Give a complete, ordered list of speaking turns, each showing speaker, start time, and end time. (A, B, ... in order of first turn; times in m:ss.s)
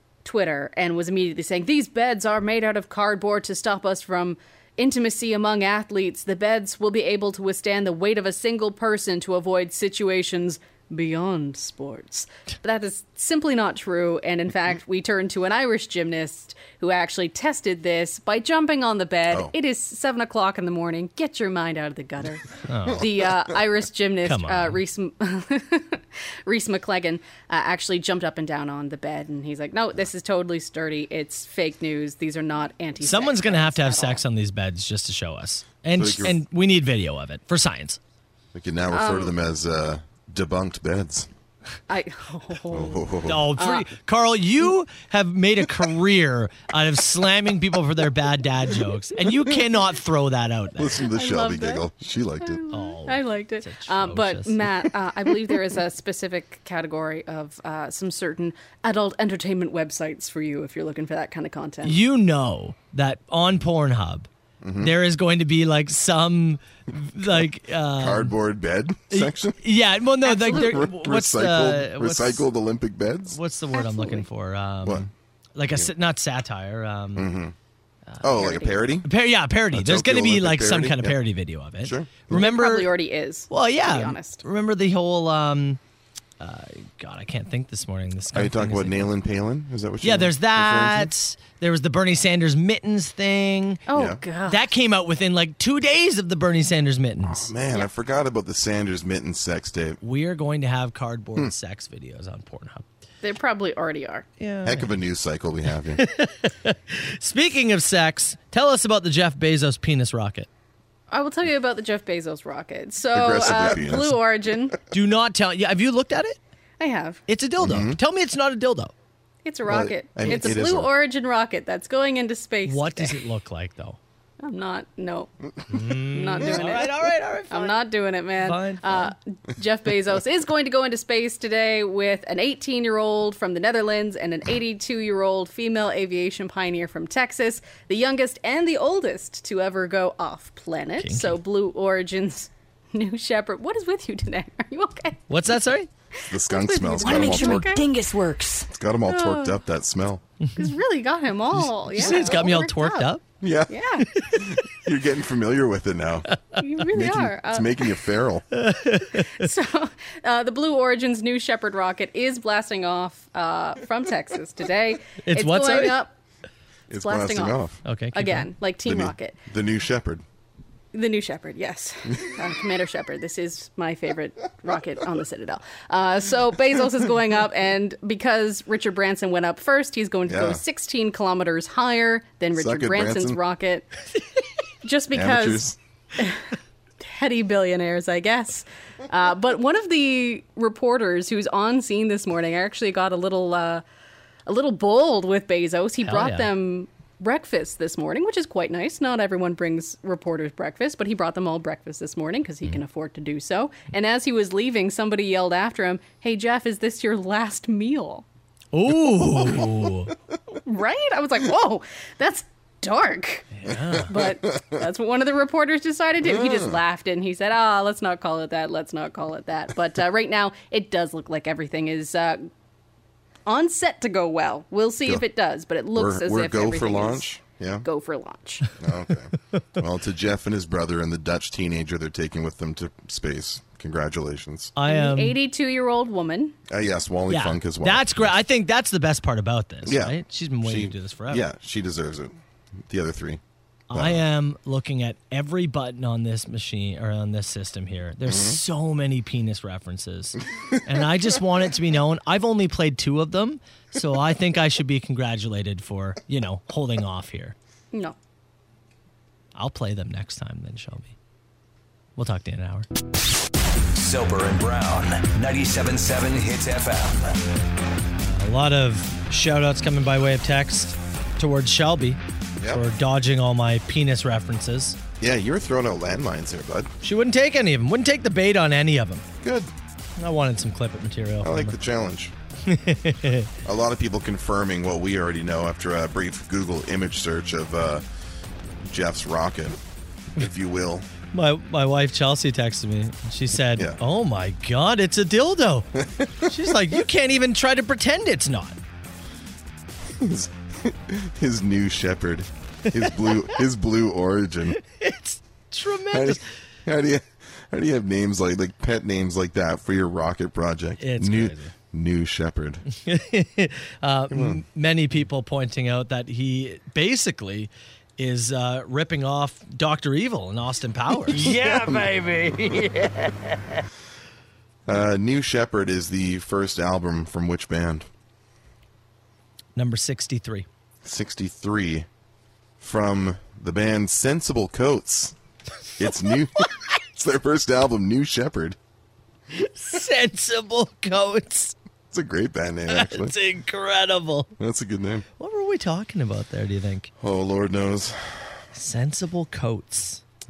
0:00.2-0:34.2 A
0:22.7-0:23.0 B
0:24.2-0:24.8 B
0:33.0-0:38.0 B
0:35.9-0:36.4 C
0:38.5-0:41.3 C
0:38.9-0:39.3 A
0:41.9-0:43.0 A
0:42.7-0:43.5 C
0:43.2-0:51.0 B
0:43.5-0:43.9 A
0:50.8-0:52.6 C
0:51.0-0:51.9 A
0:52.4-1:02.0 A
0:52.7-0:54.6 B
1:01.8-1:04.3 B
1:04.6-1:04.9 C
1:04.8-1:08.3 B
1:07.2-1:09.6 C
1:09.1-1:12.5 B
1:10.2-1:10.9 A
1:10.4-1:13.4 C
1:13.3-1:17.3 B
1:13.7-1:14.3 A
1:17.1-1:17.5 C
1:18.1-1:22.9 B
1:18.2-1:19.1 C
1:18.4-1:18.7 A
1:19.7-1:21.2 C
1:21.8-1:22.4 C
1:22.3-1:24.4 A
1:23.5-1:25.8 B
1:26.4-1:29.1 B
1:28.3-1:31.1 C
1:30.0-1:33.8 B
1:33.9-1:34.6 A
1:33.9-1:34.2 C
1:34.5-1:37.5 B
1:37.2-1:40.0 C
1:40.0-1:42.8 B
1:43.2-1:44.3 A
1:44.4-1:44.9 B
1:44.6-1:46.0 C
1:46.0-1:50.5 B
1:51.1-1:54.8 A
1:53.1-1:54.2 C
1:54.9-1:56.4 B
1:56.8-1:57.2 A
1:57.3-1:58.9 B
1:57.6-1:58.0 C
1:59.4-2:03.2 A
1:59.7-2:00.9 C
2:02.6-2:04.0 B
2:04.4-2:25.2 A
2:05.7-2:07.8 B
2:08.4-2:09.1 B
2:21.0-2:21.4 B
2:25.3-2:25.9 B
2:26.2-2:27.9 A
2:26.3-2:27.8 C
2:27.0-2:28.7 D
2:28.7-2:30.2 C
2:29.1-2:29.6 A
2:30.5-2:33.1 A
2:31.9-2:33.2 B
2:33.4-2:36.3 C
2:33.7-2:34.1 A
2:34.1-2:34.4 B
2:36.3-2:36.6 B
2:36.6-2:37.8 A
2:36.9-2:38.4 C
2:38.5-2:39.5 B
2:39.3-2:46.1 A
2:45.2-2:46.0 B
2:46.9-2:47.8 C
2:46.9-2:49.4 A
2:47.8-2:48.5 B
2:48.8-2:50.2 C
2:50.9-3:03.9 A
3:00.3-3:00.6 C
3:02.5-3:03.4 C
3:04.8-3:06.4 A
3:05.1-3:05.8 C
3:07.0-3:13.8 A
3:14.4-3:28.2 A
3:16.0-3:16.5 B
3:28.7-3:30.1 B
3:30.5-3:33.5 A
3:33.5-3:34.1 B
3:34.1-3:42.5 A
3:34.1-3:34.8 C
3:36.2-3:36.8 C
3:43.4-3:47.3 A
3:45.9-3:47.8 C
3:47.8-3:48.7 A
3:48.8-3:54.7 C
3:54.8-3:55.4 B
3:54.8-3:56.6 A
3:56.7-3:58.3 C
3:57.3-4:01.4 B
3:59.8-4:02.3 C
4:02.9-4:03.4 C
4:03.9-4:17.5 B
4:03.9-4:04.2 C
4:08.2-4:08.6 C
4:19.5-4:21.1 B
4:22.2-4:22.9 B
4:23.9-4:27.4 E
4:28.2-4:35.0 B
4:35.2-4:36.9 C
4:37.0-4:39.2 B
4:39.4-4:39.7 C
4:40.2-4:41.8 B
4:41.4-4:42.3 C
4:42.7-4:43.5 B
4:43.6-4:48.0 C
4:48.8-4:49.8 C
4:50.4-4:51.1 C
4:51.3-4:55.9 B
4:56.0-4:56.5 C
4:56.4-4:58.8 B
5:00.1-5:04.8 C
5:02.9-5:03.6 B
5:04.8-5:06.4 B
5:06.1-5:12.8 C
5:11.0-5:11.7 B
5:12.9-5:21.5 B
5:14.3-5:14.6 C
5:21.4-5:23.0 D
5:21.4-5:22.1 C
5:24.9-5:28.1 C
5:29.8-5:30.6 B
5:31.0-5:32.1 C
5:32.8-5:35.3 C
5:36.0-5:38.8 C
5:39.5-5:41.8 B
5:42.1-5:43.4 C
5:42.9-5:44.5 B
5:44.6-5:45.2 C
5:45.4-5:47.1 B
5:47.2-5:48.6 C
5:48.7-5:50.2 B